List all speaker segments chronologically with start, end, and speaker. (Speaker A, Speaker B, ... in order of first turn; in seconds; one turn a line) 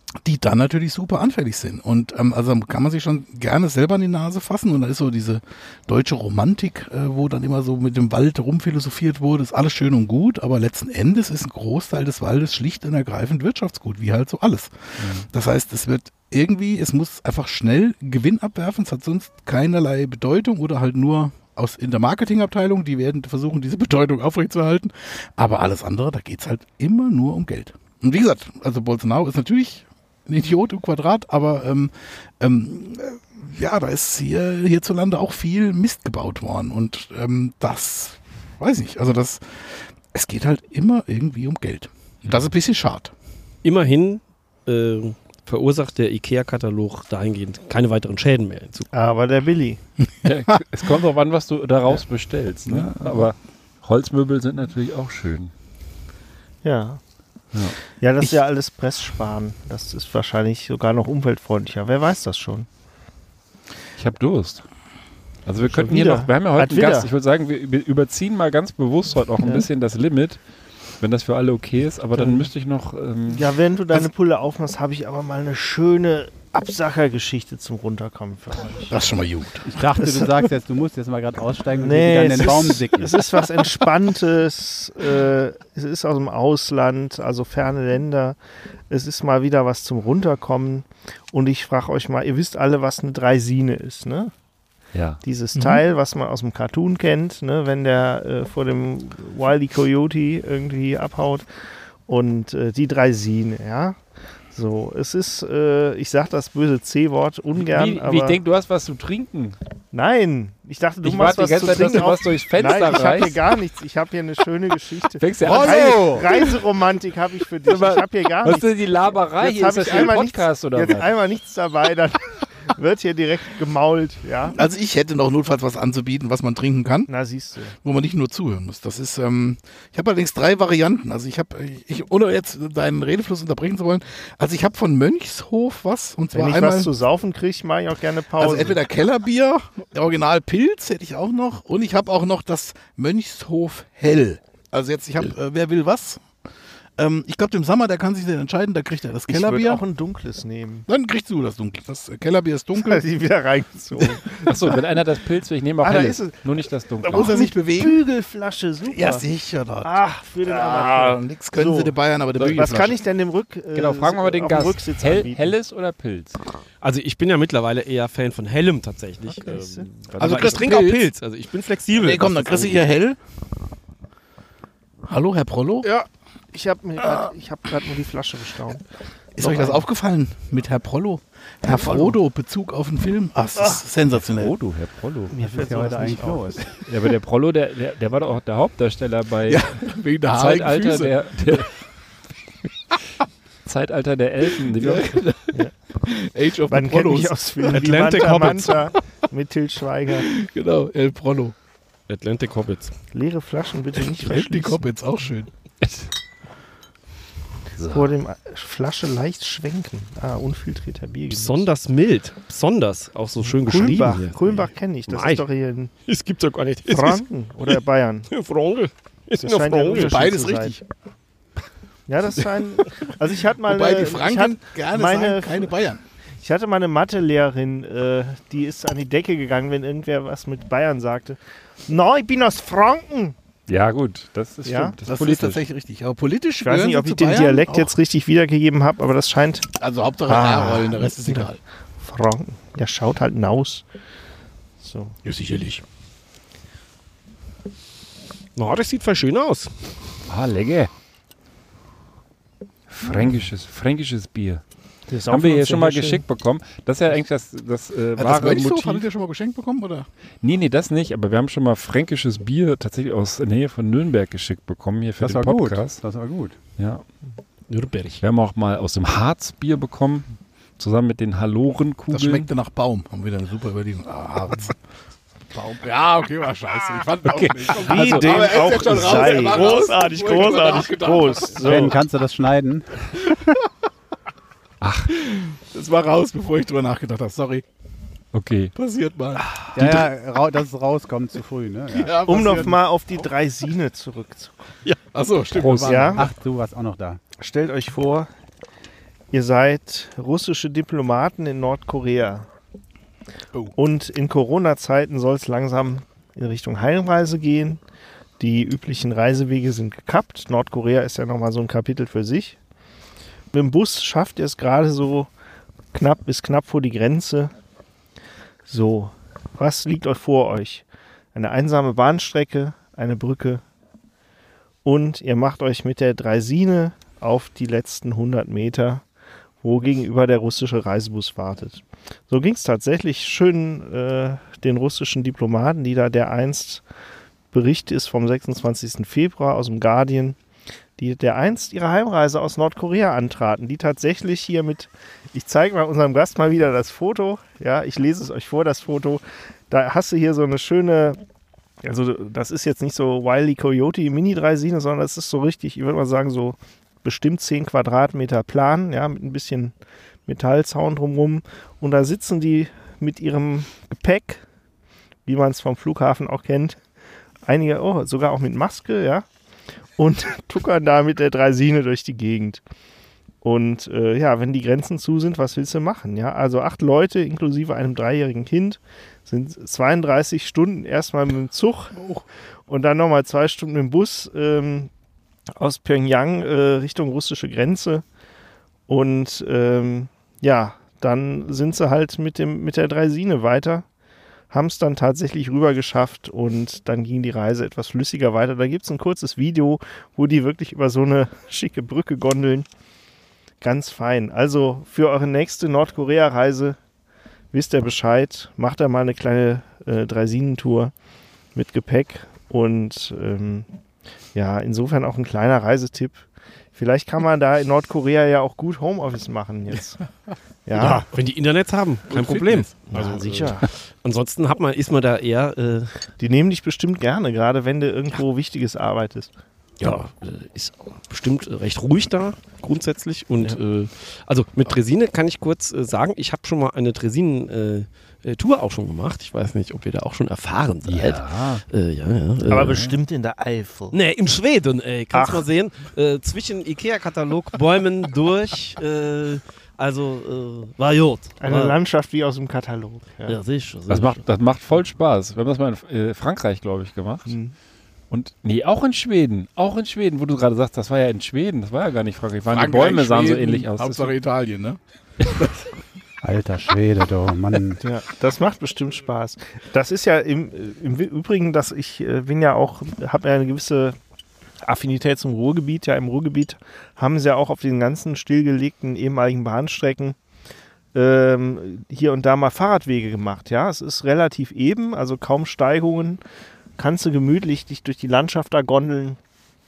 Speaker A: 0.2-43.1
Speaker B: 15.0-15.3
Speaker C: 43.6-48.9
Speaker D: 48.9-49.8
Speaker A: 50.0-50.6
Speaker B: 50.2-55.5
Speaker A: 52.6-53.3
Speaker D: 56.6-57.0
Speaker B: 57.5-57.8
Speaker D: 58.0-62.7
Speaker B: 64.0-64.7
Speaker B: 65.5-70.4
Speaker D: 65.7-67.1
Speaker B: 71.0-73.5
Speaker D: 72.2-72.5
Speaker D: 73.3-79.2
Speaker A: 78.9-79.7
Speaker E: 79.7-83.2
Speaker D: 80.0-80.5
Speaker D: 81.8-88.4
Speaker D: 88.9-94.3
Speaker B: 94.9-95.2
Speaker D: 95.2-101.5
Speaker A: 95.5-95.8
Speaker D: 102.1-108.4
Speaker B: 107.5-109.6
Speaker D: 109.9-118.8
Speaker B: 111.0-113.4
Speaker B: 115.2-116.5
Speaker A: 115.5-116.2
Speaker E: 115.5-116.2
Speaker B: 117.7-121.1
Speaker D: 119.4-124.6
Speaker A: 124.5-127.1
Speaker D: 127.1-127.8
Speaker A: 127.8-136.9
Speaker D: 136.3-138.8
Speaker A: 138.4-146.3
Speaker A: 147.0-149.8
Speaker D: 149.3-150.9
Speaker A: 150.9-153.0
Speaker D: 152.8-154.8
Speaker B: 154.5-157.4
Speaker D: 155.8-156.4
Speaker D: 157.0-159.3
Speaker A: 157.1-158.0
Speaker A: 158.8-163.0
Speaker D: 159.8-162.0
Speaker B: 162.3-162.8
Speaker D: 162.5-165.5
Speaker B: 163.7-166.4
Speaker C: 166.8-172.8
Speaker D: 169.3-169.9
Speaker A: 170.2-171.1
Speaker A: 171.9-173.2
Speaker A: 175.1-175.9
Speaker D: 175.8-179.8
Speaker A: 177.0-177.3
Speaker A: 179.4-184.6
Speaker D: 181.7-182.1
Speaker B: 184.2-185.4
Speaker D: 185.3-186.8
Speaker E: 185.5-186.7
Speaker B: 186.9-191.8
Speaker A: 189.5-191.7
Speaker B: 193.7-195.2
Speaker A: 194.8-198.7
Speaker D: 196.7-200.3
Speaker B: 197.8-198.7
Speaker A: 200.3-201.6
Speaker C: 202.1-203.0
Speaker D: 203.1-204.8
Speaker A: 203.9-205.5
Speaker B: 205.8-206.1
Speaker B: 207.8-208.1
Speaker D: 207.9-211.7
Speaker C: 211.3-215.5
Speaker D: 213.6-215.9
Speaker C: 216.1-220.2
Speaker D: 216.9-218.3
Speaker D: 219.4-220.8
Speaker A: 219.9-220.8
Speaker D: 222.1-225.8
Speaker A: 223.7-226.0
Speaker D: 226.4-233.4
Speaker B: 233.7-235.7
Speaker D: 234.7-235.0
Speaker A: 235.1-237.9
Speaker D: 236.6-239.7
Speaker A: 239.8-241.6
Speaker D: 240.3-243.8
Speaker D: 244.8-245.2
Speaker C: 245.2-245.8
Speaker A: 245.5-245.8
Speaker C: 248.6-249.9
Speaker B: 250.3-250.9
Speaker B: 252.9-254.6
Speaker D: 255.1-256.2
Speaker B: 255.3-259.1
Speaker A: 258.2-260.1
Speaker B: 260.4-266.0
Speaker E: 265.2-266.6
Speaker B: 266.8-267.0
Speaker C: 267.7-268.2
Speaker B: 268.2-272.5
Speaker A: 272.1-274.8
Speaker D: 275.5-275.8
Speaker A: 275.8-281.8
Speaker B: 277.3-278.5
Speaker D: 277.7-281.9
Speaker C: 279.2-280.9
Speaker E: 281.6-283.6
Speaker B: 284.8-285.1
Speaker A: 285.2-287.6
Speaker B: 288.3-288.7
Speaker A: 288.8-290.0
Speaker E: 289.8-292.7
Speaker A: 291.9-292.8
Speaker D: 292.2-294.8
Speaker A: 295.1-296.2
Speaker B: 295.5-296.3
Speaker D: 295.9-296.2
Speaker E: 296.0-297.2
Speaker D: 297.4-298.3
Speaker D: 299.3-302.5
Speaker D: 303.8-307.8
Speaker D: 308.4-312.6
Speaker D: 313.5-315.3
Speaker D: 315.9-317.5
Speaker D: 318.7-323.6
Speaker D: 324.8-329.1
Speaker D: 329.6-336.8
Speaker D: 337.5-340.4
Speaker D: 341.0-351.2
Speaker D: 351.8-359.8
Speaker D: 360.3-364.4
Speaker D: 365.2-366.8
Speaker D: 367.4-369.3
Speaker D: 370.0-372.6
Speaker D: 373.4-382.0
Speaker A: 382.0-382.2
Speaker D: 382.7-384.9
Speaker D: 385.6-388.1
Speaker D: 388.9-393.9
Speaker D: 394.5-402.7
Speaker D: 403.6-406.8
Speaker D: 407.5-410.9
Speaker D: 411.6-413.7
Speaker D: 414.3-420.1
Speaker D: 420.7-421.1
Speaker C: 420.8-426.1
Speaker A: 422.1-422.8
Speaker D: 422.9-423.7
Speaker D: 426.2-429.3
Speaker C: 429.8-442.9
Speaker B: 440.9-441.6
Speaker D: 442.5-444.0
Speaker C: 443.9-451.8
Speaker D: 445.1-445.5
Speaker D: 451.4-453.4
Speaker C: 453.3-454.2
Speaker B: 453.9-457.3
Speaker D: 457.3-457.5
Speaker B: 458.1-464.2
Speaker A: 462.5-465.5
Speaker E: 466.2-467.8
Speaker D: 467.8-474.0
Speaker D: 474.6-480.2
Speaker D: 480.9-486.2
Speaker D: 486.8-489.2